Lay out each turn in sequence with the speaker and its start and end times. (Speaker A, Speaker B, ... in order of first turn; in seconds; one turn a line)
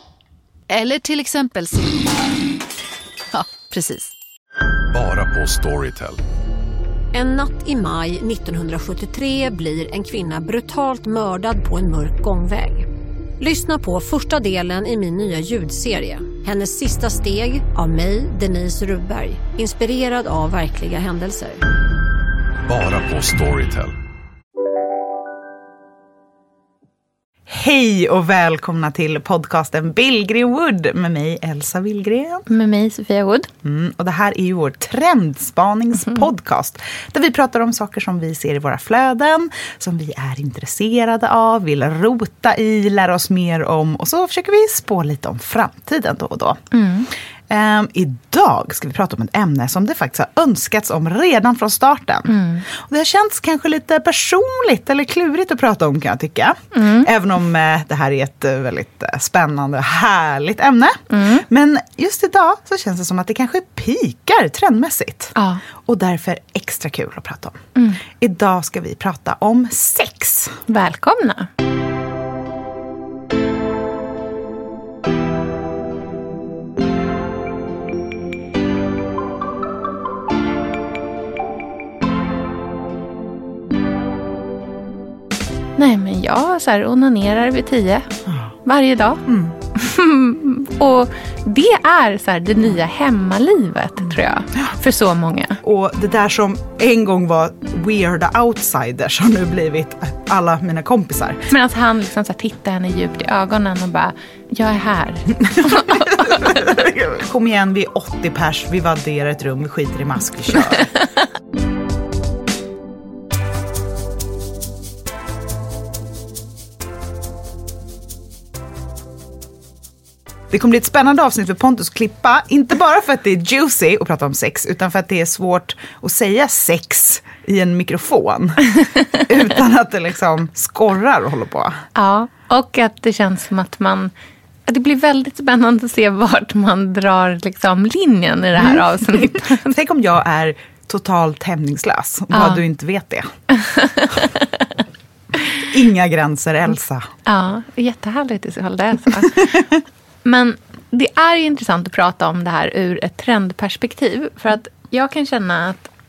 Speaker A: 0.7-2.1
Speaker A: 3.3-4.1
Speaker B: 4.9-6.2
Speaker C: 7.1-12.9
Speaker C: 13.4-21.6
Speaker B: 22.7-23.9
Speaker D: 27.5-32.4
Speaker E: 32.5-33.5
Speaker D: 33.6-46.6
Speaker E: 46.7-47.1
Speaker D: 47.5-70.6
Speaker E: 52.3-52.6
Speaker E: 56.7-57.1
Speaker E: 61.1-61.5
Speaker E: 65.3-65.6
Speaker E: 67.8-68.0
Speaker E: 70.7-71.5
Speaker E: 85.8-88.1
Speaker D: 88.3-88.5
Speaker E: 88.6-89.2
Speaker D: 89.2-89.5
Speaker E: 89.7-95.6
Speaker D: 95.6-101.5
Speaker E: 101.5-106.7
Speaker D: 105.4-110.9
Speaker D: 120.5-128.7
Speaker E: 128.9-129.2
Speaker D: 129.3-131.8
Speaker E: 131.9-134.1
Speaker E: 134.7-139.7
Speaker D: 138.6-143.3
Speaker E: 142.3-142.6
Speaker E: 143.5-144.7
Speaker D: 145.6-147.1
Speaker E: 147.2-149.6
Speaker D: 149.3-149.7
Speaker E: 150.2-155.9